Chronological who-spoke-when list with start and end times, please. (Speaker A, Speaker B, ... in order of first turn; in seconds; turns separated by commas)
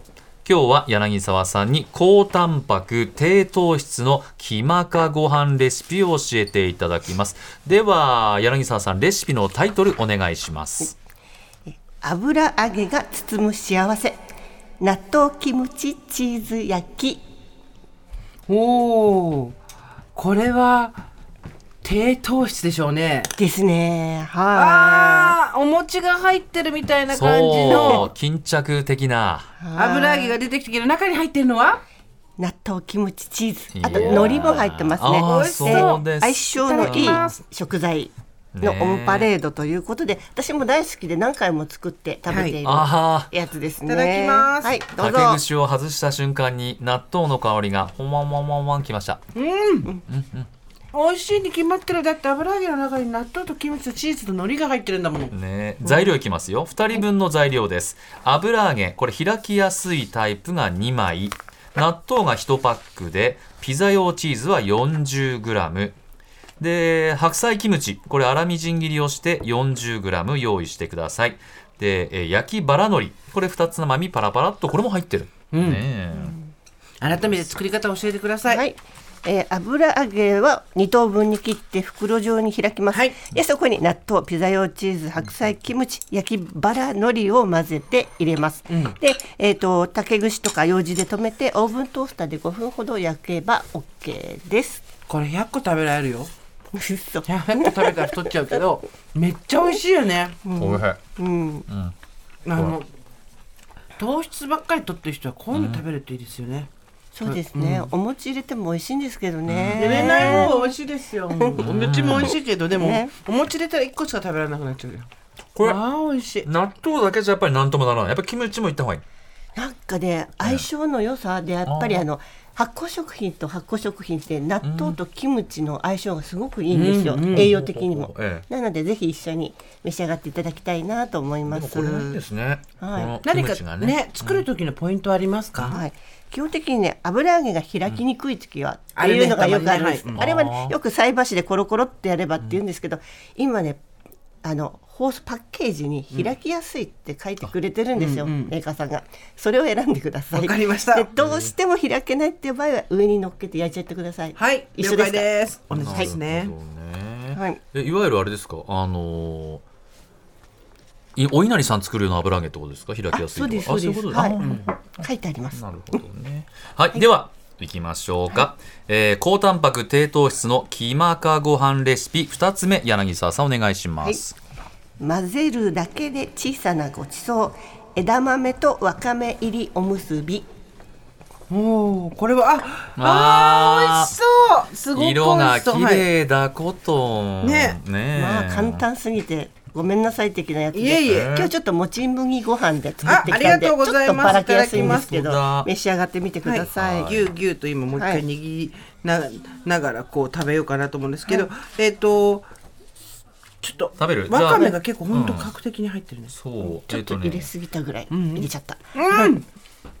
Speaker A: 0.4-10.9, Speaker B: 11.7-14.2, Speaker B: 14.8-17.2, Speaker C: 18.5-19.5, Speaker C: 20.1-21.0, Speaker C: 21.8-23.3, Speaker B: 23.4-25.3, Speaker C: 24.5-28.1, Speaker A: 27.1-29.5, Speaker B: 27.6-28.1, Speaker B: 29.6-30.4, Speaker C: 29.8-31.8, Speaker B: 32.4-45.4, Speaker A: 33.7-37.4, Speaker C: 33.9-34.3, Speaker C: 35.2-36.0, Speaker C: 36.6-37.4, Speaker A: 38.5-39.3, Speaker C: 42.3-42.6, Speaker A: 42.6-43.3, Speaker C: 43.9-44.8, Speaker A: 45.0-49.2, Speaker C: 49.3-49.9, Speaker A: 50.1-50.5, Speaker C: 50.9-55.3, Speaker A: 55.3-66.0, Speaker A: 66.6-76.3, Speaker C: 75.5-75.8, Speaker B: 76.1-76.5, Speaker C: 77.0-78.6, Speaker B: 78.5-94.8, Speaker C: 82.9-83.2, Speaker C: 88.7-88.9, Speaker C: 95.1-96.3, Speaker B: 96.7-98.1, Speaker C: 97.2-100.4, Speaker B: 100.4-101.7, Speaker A: 100.5-101.0, Speaker A: 101.7-101.9, Speaker C: 102.5-102.8, Speaker C: 104.0-106.7, Speaker A: 105.5-105.8, Speaker B: 107.1-110.7, Speaker C: 107.2-107.9, Speaker A: 109.5-110.5, Speaker C: 109.8-115.1, Speaker B: 111.3-113.1, Speaker A: 111.6-112.3, Speaker C: 115.6-116.5, Speaker A: 116.4-119.0, Speaker B: 119.5-132.2, Speaker A: 120.4-120.7, Speaker A: 121.7-122.1, Speaker A: 124.6-125.0, Speaker C: 126.7-127.5, Speaker A: 127.3-128.4, Speaker A: 131.5-134.4, Speaker B: 132.8-133.2, Speaker C: 133.2-135.8, Speaker B: 135.7-143.8, Speaker C: 138.9-140.2, Speaker A: 140.2-140.8, Speaker B: 144.4-155.3, Speaker C: 147.9-148.5, Speaker C: 150.3-151.1, Speaker A: 151.2-151.5, Speaker C: 154.3-156.5, Speaker A: 155.7-159.6, Speaker B: 155.8-156.1, Speaker B: 157.3-157.6, Speaker A: 161.2-174.3, Speaker B: 163.1-164.4, Speaker C: 164.4-164.7, Speaker B: 165.0-166.0, Speaker B: 175.0-180.5, Speaker C: 181.5-186.1, Speaker A: 183.0-184.1, Speaker A: 184.9-188.8, Speaker C: 187.4-187.8, Speaker B: 188.1-197.2, Speaker C: 190.7-191.4, Speaker A: 191.0-191.5, Speaker A: 193.0-193.4, Speaker C: 193.1-195.1, Speaker A: 194.7-195.7, Speaker C: 196.4-202.5, Speaker A: 196.7-197.3, Speaker B: 197.9-198.2, Speaker C: 203.6-206.3, Speaker A: 204.0-205.5, Speaker B: 204.5-204.8, Speaker A: 206.3-207.5, Speaker B: 206.6-208.8, Speaker C: 208.1-209.4